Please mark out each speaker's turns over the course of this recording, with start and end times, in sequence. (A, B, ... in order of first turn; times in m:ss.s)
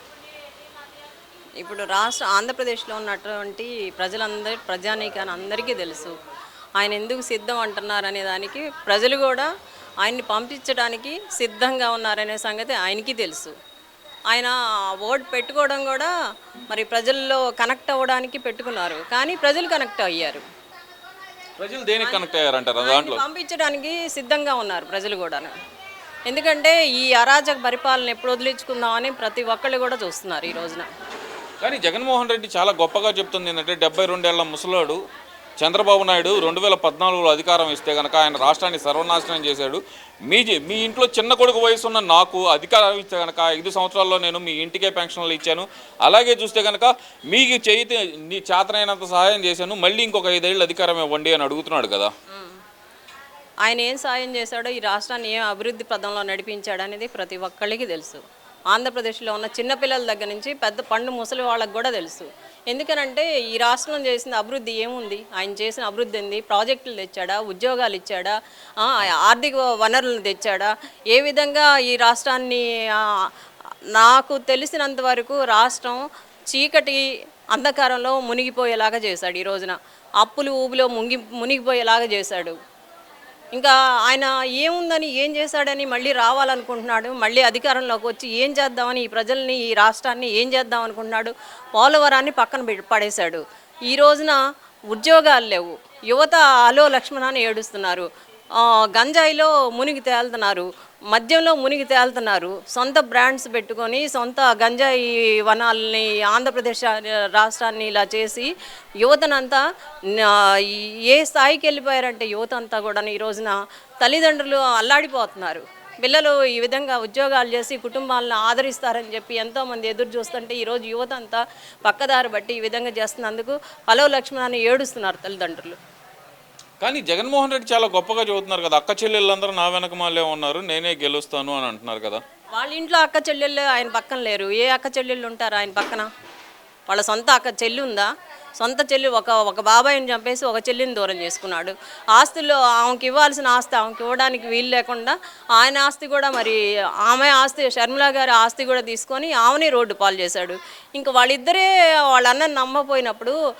0:01.6-0:06.2 A
0:06.8-0:09.5 A
0:10.0-0:13.6 A
0:14.3-0:16.1 A
0:16.7-0:20.4 A
0:21.6-0:23.2 B
0:22.8-0:25.5 A
0:26.3-0:30.9 A
0:31.6-0:35.0 B
0:35.6-0:52.1 B
0:52.3-0:52.6 A
0:53.6-1:13.3 A
1:14.0-1:22.6 A
1:23.6-1:34.4 A
1:34.9-2:05.8 A
2:06.8-2:12.2 B
2:12.6-2:16.1 A
2:16.9-2:33.4 A